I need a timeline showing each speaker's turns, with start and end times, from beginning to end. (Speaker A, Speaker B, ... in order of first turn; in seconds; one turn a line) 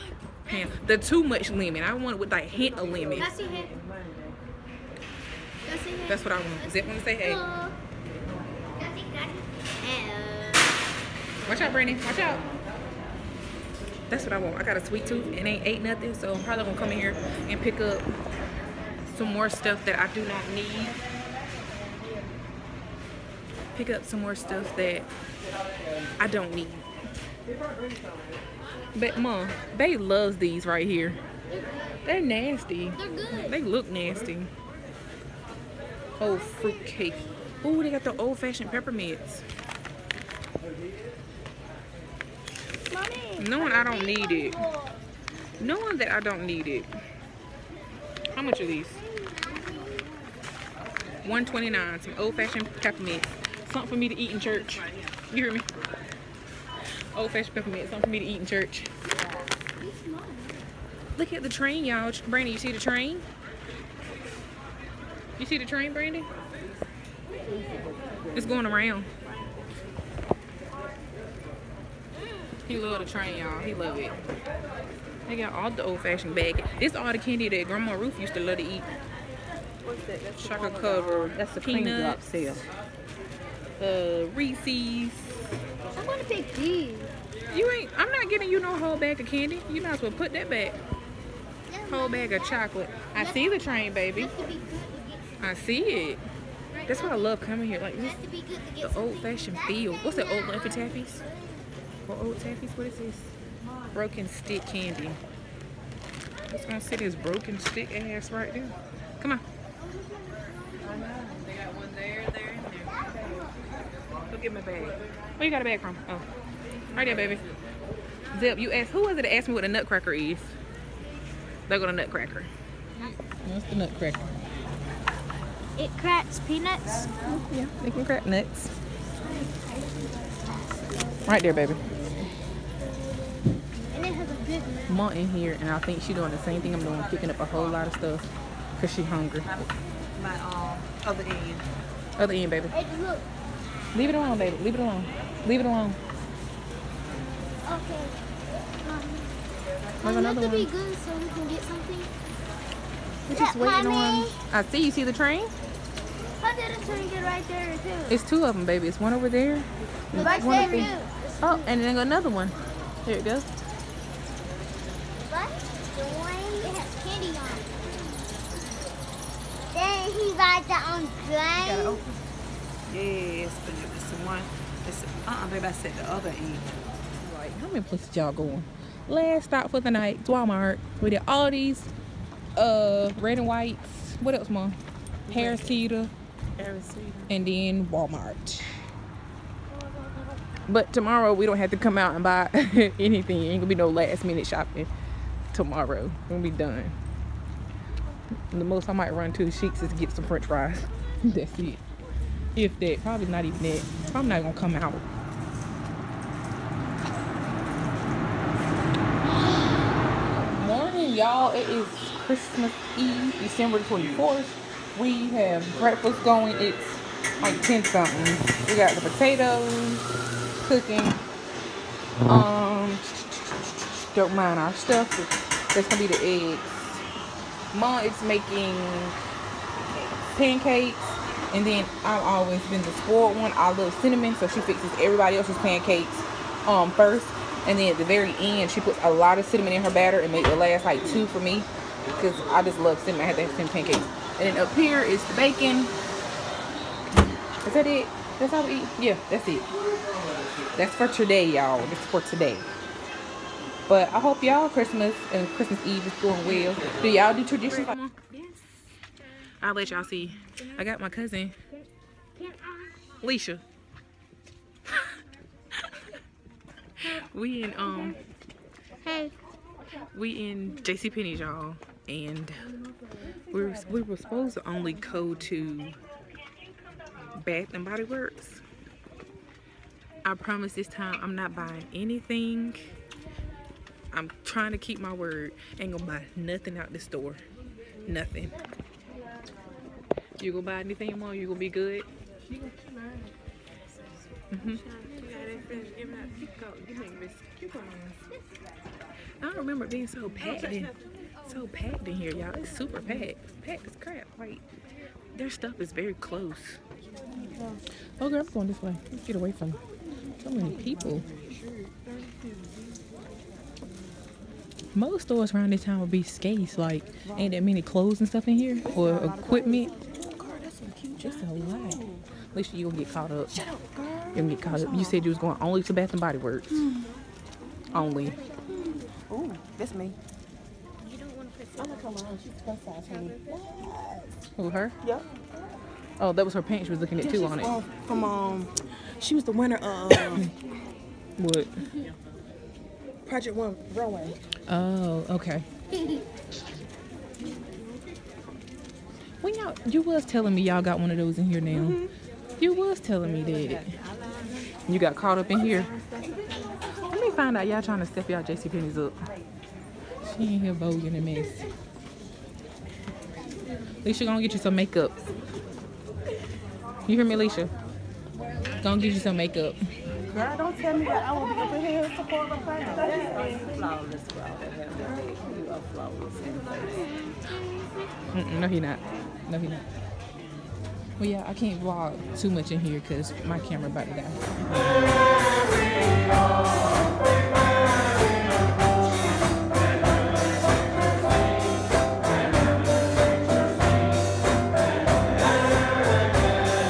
Speaker A: 0.4-3.4
Speaker B: 2.5-4.3
Speaker C: 3.2-3.8
Speaker C: 5.7-7.8
Speaker A: 6.0-7.4
Speaker C: 8.8-10.7
Speaker A: 11.4-12.5
Speaker A: 14.1-18.1
Speaker A: 19.1-21.0
Speaker A: 23.7-25.1
Speaker A: 26.2-26.9
Speaker A: 28.9-31.2
Speaker A: 32.0-34.5
Speaker C: 33.0-33.5
Speaker A: 36.2-39.5
Speaker C: 42.9-45.0
Speaker A: 43.4-44.7
Speaker A: 45.6-46.9
Speaker A: 48.3-49.0
Speaker C: 48.9-50.1
Speaker A: 51.2-55.7
Speaker B: 54.4-55.1
Speaker A: 57.1-58.9
Speaker C: 59.8-60.5
Speaker A: 61.2-63.2
Speaker A: 65.4-66.3
Speaker B: 67.7-68.4
Speaker A: 68.3-69.1
Speaker A: 72.7-74.2
Speaker A: 75.3-78.9
Speaker B: 79.8-82.7
Speaker A: 80.4-82.7
Speaker A: 83.8-85.5
Speaker C: 86.0-87.1
Speaker A: 87.5-90.8
Speaker C: 91.7-92.6
Speaker A: 91.9-94.3
Speaker C: 93.2-95.4
Speaker A: 95.4-96.2
Speaker C: 96.7-97.3
Speaker A: 96.9-98.2
Speaker C: 97.9-101.7
Speaker A: 98.8-101.2
Speaker A: 102.1-103.3
Speaker A: 103.9-105.2
Speaker A: 106.5-109.4
Speaker C: 109.8-111.3
Speaker B: 110.8-113.4
Speaker C: 112.9-113.5
Speaker B: 114.3-115.0
Speaker A: 115.4-116.3
Speaker B: 116.9-117.4
Speaker A: 116.9-117.5
Speaker A: 118.3-120.6
Speaker A: 121.7-124.4
Speaker C: 125.8-127.4
Speaker A: 127.4-128.7
Speaker C: 129.2-132.2
Speaker A: 131.3-132.0
Speaker C: 132.8-135.0
Speaker A: 134.9-139.5
Speaker B: 136.8-138.0
Speaker B: 139.5-141.7
Speaker A: 142.2-142.8
Speaker C: 142.7-143.3
Speaker A: 143.9-146.0
Speaker C: 147.6-149.3
Speaker A: 150.0-150.7
Speaker C: 150.0-152.1
Speaker A: 153.3-155.5
Speaker C: 153.3-154.4
Speaker C: 156.4-158.2
Speaker A: 158.1-163.5
Speaker C: 160.1-161.7
Speaker C: 165.3-167.8
Speaker C: 169.7-172.0
Speaker B: 171.6-172.2
Speaker B: 172.9-176.7
Speaker A: 177.2-181.9
Speaker A: 182.6-186.1
Speaker B: 185.3-185.9
Speaker B: 186.6-187.4
Speaker A: 187.3-188.8
Speaker A: 190.7-194.9
Speaker A: 195.5-197.0
Speaker A: 198.5-201.8
Speaker A: 202.6-205.1
Speaker A: 210.5-220.1
Speaker A: 220.6-221.2
Speaker A: 222.2-223.3
Speaker A: 224.1-227.1
Speaker A: 227.7-245.9
Speaker A: 247.6-249.7
Speaker A: 250.7-252.7
Speaker A: 253.9-258.4
Speaker A: 259.6-261.6
Speaker A: 263.2-263.6
Speaker A: 267.0-268.2
Speaker A: 269.1-269.3
Speaker A: 270.0-272.8
Speaker A: 273.5-276.0
Speaker A: 277.3-278.6
Speaker A: 280.2-282.9
Speaker A: 284.1-287.4
Speaker A: 288.0-288.6
Speaker A: 290.4-292.1
Speaker A: 294.5-294.8
Speaker B: 294.7-298.2
Speaker A: 299.4-300.9
Speaker B: 300.4-300.9
Speaker A: 301.4-304.6
Speaker A: 305.3-306.8
Speaker B: 307.4-307.8
Speaker A: 308.2-309.8
Speaker A: 310.4-311.3
Speaker B: 310.6-312.5
Speaker A: 314.9-319.9
Speaker B: 317.2-317.5
Speaker B: 318.9-322.2
Speaker A: 321.2-323.5
Speaker B: 323.5-325.3
Speaker A: 324.3-326.9
Speaker A: 327.9-328.4
Speaker C: 328.3-328.8
Speaker B: 328.8-330.2
Speaker C: 331.1-332.2
Speaker B: 331.8-334.3
Speaker A: 334.6-335.0
Speaker A: 336.2-337.8
Speaker B: 337.2-340.5
Speaker A: 339.9-340.5
Speaker A: 341.4-341.9
Speaker B: 343.3-344.3
Speaker A: 344.7-345.7
Speaker A: 349.4-352.0
Speaker B: 351.7-352.1
Speaker A: 352.6-353.9
Speaker B: 353.2-354.7
Speaker A: 354.9-355.9
Speaker B: 355.8-356.8
Speaker A: 357.0-359.2
Speaker A: 360.2-361.7
Speaker A: 364.0-365.2
Speaker A: 367.1-367.7
Speaker A: 368.8-369.8
Speaker B: 370.3-371.9
Speaker A: 370.4-370.9
Speaker A: 371.5-373.7
Speaker B: 372.8-377.2
Speaker A: 378.3-379.8
Speaker A: 381.2-385.1